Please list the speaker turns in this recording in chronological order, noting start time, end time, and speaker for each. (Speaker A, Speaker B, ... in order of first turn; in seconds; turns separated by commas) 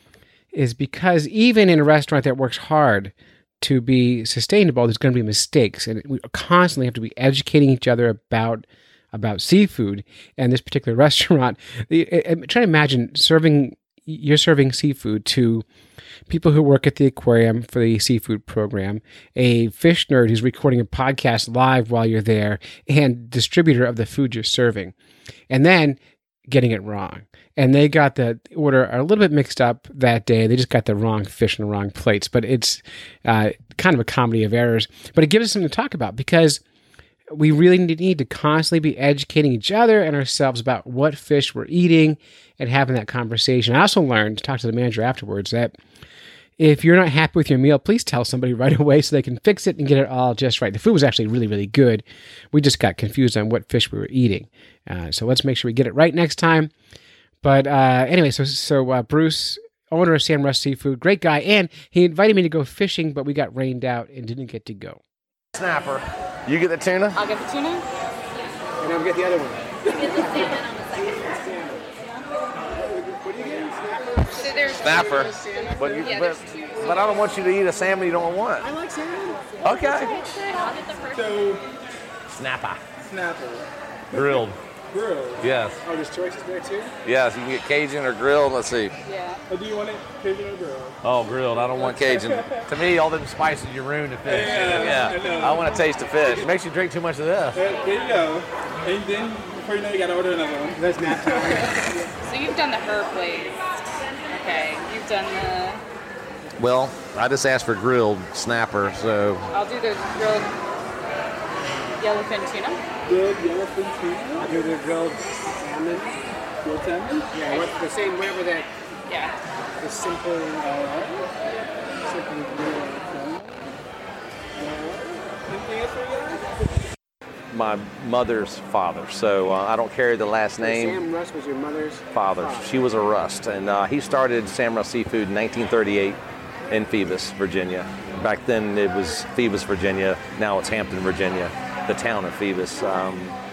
Speaker A: 0.5-15.7, Speaker A: 16.3-24.9, Speaker A: 25.5-36.6, Speaker A: 37.3-45.8, Speaker A: 46.6-56.7, Speaker A: 57.4-65.0, Speaker B: 65.5-67.2, Speaker C: 67.2-67.8, Speaker A: 68.8-71.9, Speaker A: 72.7-76.4, Speaker C: 74.3-77.0, Speaker B: 74.8-78.7, Speaker A: 78.6-80.1, Speaker B: 79.6-80.3, Speaker C: 79.8-81.5, Speaker D: 81.1-81.6, Speaker B: 82.3-82.8, Speaker D: 83.0-85.5, Speaker B: 84.1-84.6, Speaker B: 85.4-85.8, Speaker A: 85.8-86.9, Speaker B: 87.0-88.9, Speaker C: 89.0-89.4, Speaker D: 89.5-91.0, Speaker B: 91.0-97.6, Speaker D: 91.5-92.7, Speaker D: 94.2-96.4, Speaker D: 97.5-101.5, Speaker A: 100.7-102.1, Speaker C: 102.2-105.8, Speaker B: 106.6-109.5, Speaker C: 109.5-110.5, Speaker C: 112.0-112.8, Speaker D: 113.1-114.6, Speaker A: 114.4-116.2, Speaker D: 116.6-117.3, Speaker A: 117.3-118.7, Speaker C: 119.1-119.3, Speaker A: 119.8-120.7, Speaker D: 120.6-121.2, Speaker A: 122.0-123.5, Speaker A: 124.6-125.0, Speaker D: 125.5-126.5, Speaker B: 127.5-131.0, Speaker A: 130.6-132.8, Speaker B: 132.1-143.3